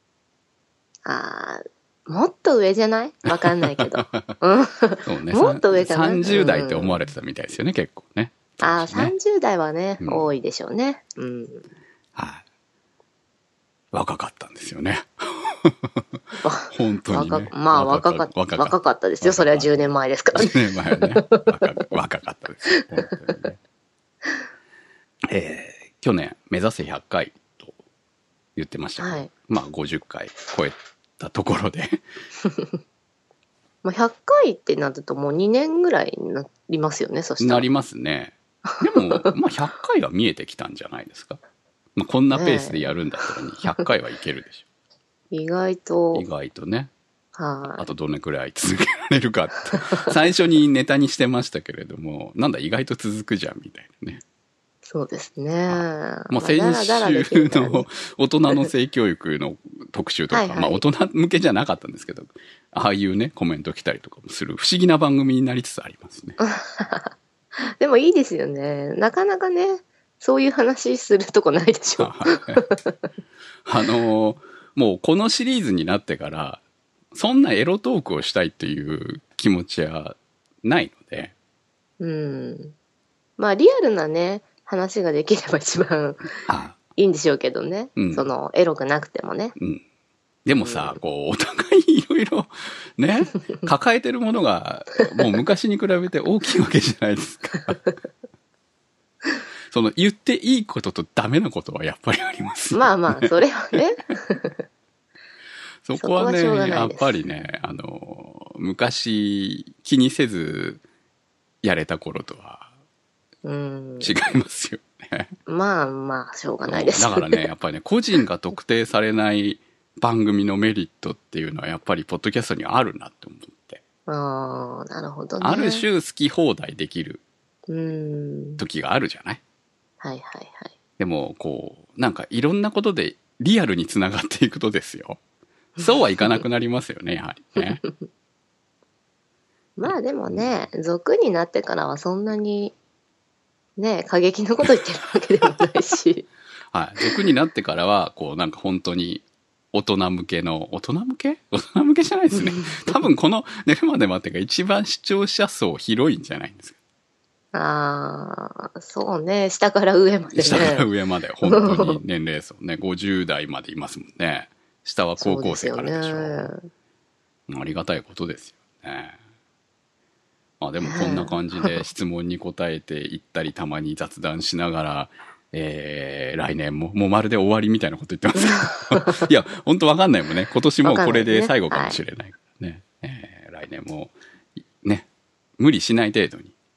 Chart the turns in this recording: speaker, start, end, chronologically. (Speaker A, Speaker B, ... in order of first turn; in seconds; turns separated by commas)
Speaker A: 1.0-7.1, Speaker B: 3.4-4.3, Speaker B: 5.0-9.1, Speaker A: 8.6-11.7, Speaker B: 10.0-10.3, Speaker B: 12.2-12.4, Speaker B: 13.9-16.0, Speaker A: 16.4-21.5, Speaker B: 16.7-19.7, Speaker B: 20.3-23.6, Speaker B: 25.3-27.7, Speaker B: 28.6-32.0, Speaker A: 29.0-29.3, Speaker A: 32.4-32.7, Speaker A: 33.8-37.7, Speaker B: 37.4-41.4, Speaker A: 38.7-39.3, Speaker B: 42.0-44.6, Speaker A: 42.3-43.9, Speaker A: 45.3-46.2, Speaker B: 46.1-46.9, Speaker A: 47.3-47.9, Speaker B: 47.7-54.2, Speaker A: 54.8-57.9, Speaker B: 55.7-66.4, Speaker A: 60.3-60.9, Speaker A: 66.4-67.1, Speaker A: 67.8-73.0, Speaker B: 72.0-72.6, Speaker B: 73.7-76.6, Speaker B: 77.1-81.3, Speaker A: 82.0-82.7, Speaker A: 83.4-86.4, Speaker B: 86.5-86.8, Speaker A: 86.9-89.5, Speaker B: 88.0-88.3, Speaker B: 90.4-97.8, Speaker A: 90.6-91.0, Speaker B: 99.7-103.8, Speaker A: 102.7-104.6, Speaker B: 105.8-110.8, Speaker A: 106.0-107.2, Speaker B: 111.6-112.7, Speaker A: 113.4-114.1, Speaker B: 114.0-115.3, Speaker A: 115.5-117.5, Speaker B: 116.7-123.8, Speaker A: 124.0-125.9, Speaker B: 125.4-127.2, Speaker A: 127.7-128.6, Speaker B: 128.6-129.4, Speaker A: 130.0-130.7, Speaker B: 131.0-135.2, Speaker A: 135.8-136.4, Speaker B: 135.8-137.8, Speaker A: 137.6-137.9, Speaker A: 139.8-142.7, Speaker B: 139.8-140.5, Speaker A: 143.8-146.3, Speaker B: 146.7-156.8, Speaker A: 152.3-153.0, Speaker A: 157.5-160.9, Speaker B: 160.3-166.5, Speaker A: 161.4-162.0, Speaker A: 165.2-166.7, Speaker B: 167.5-169.2, Speaker B: 170.6-184.1, Speaker A: 170.8-171.8, Speaker A: 178.3-179.3, Speaker A: 180.8-182.0, Speaker B: 184.6-185.1, Speaker B: 185.6-186.5